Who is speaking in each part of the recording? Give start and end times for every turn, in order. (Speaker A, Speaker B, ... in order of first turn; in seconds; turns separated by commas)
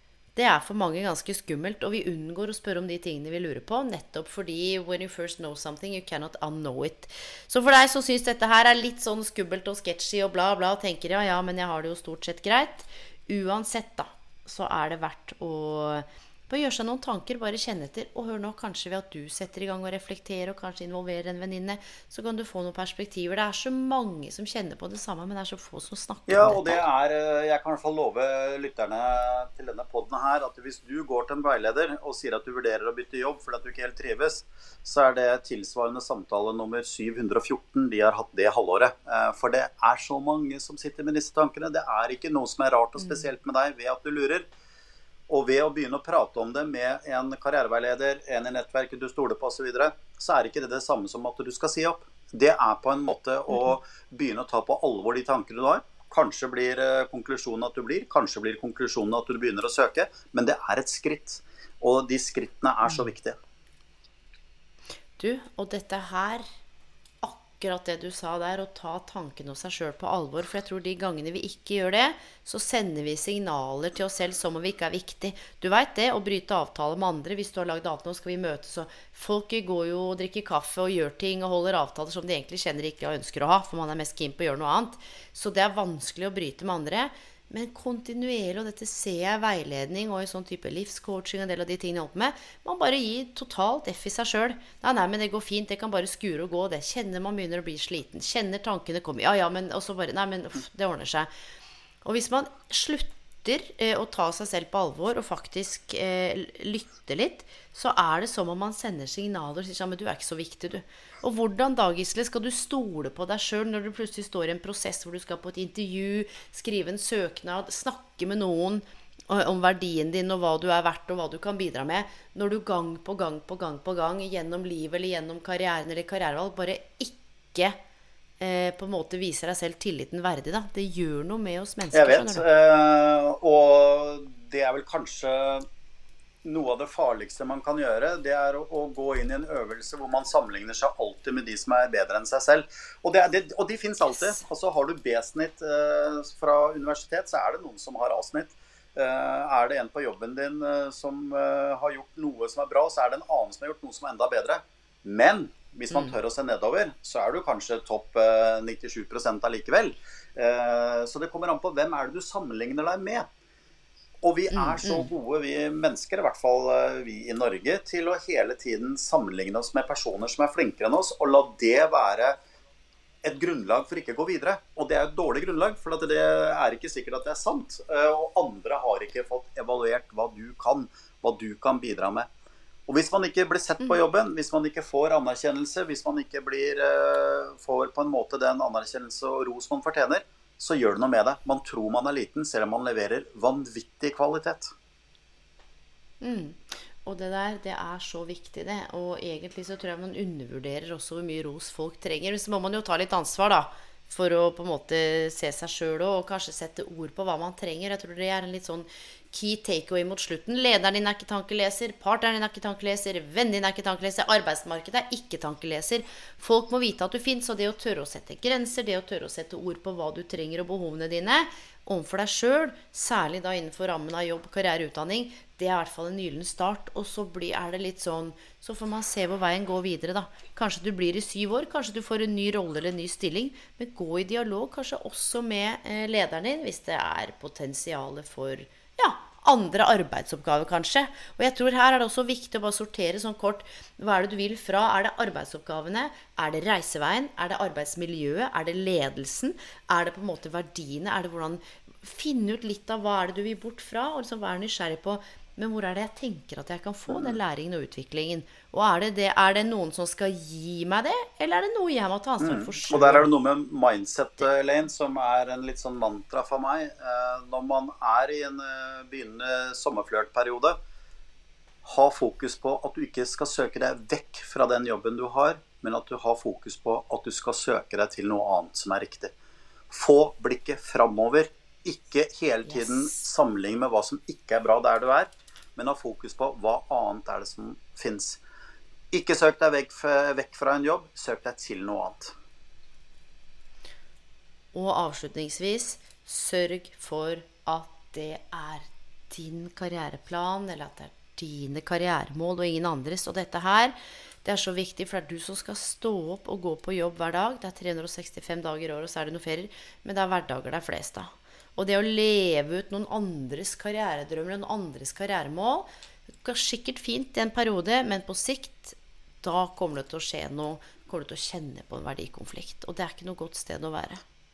Speaker A: 0.4-26.8, Speaker B: 26.3-44.5, Speaker A: 43.0-43.2, Speaker B: 45.3-63.4, Speaker A: 65.2-66.5, Speaker A: 67.2-101.3, Speaker A: 102.0-127.8, Speaker A: 128.4-132.4, Speaker B: 131.9-135.7, Speaker B: 136.4-163.3, Speaker B: 164.2-172.4, Speaker A: 164.5-165.1, Speaker B: 173.2-182.3, Speaker B: 182.9-194.7, Speaker A: 196.2-263.3, Speaker B: 257.1-257.4, Speaker B: 262.4-270.8, Speaker B: 271.8-279.3, Speaker B: 279.9-288.4, Speaker A: 282.7-283.2, Speaker B: 289.1-292.3, Speaker A: 294.7-315.9, Speaker A: 316.4-324.2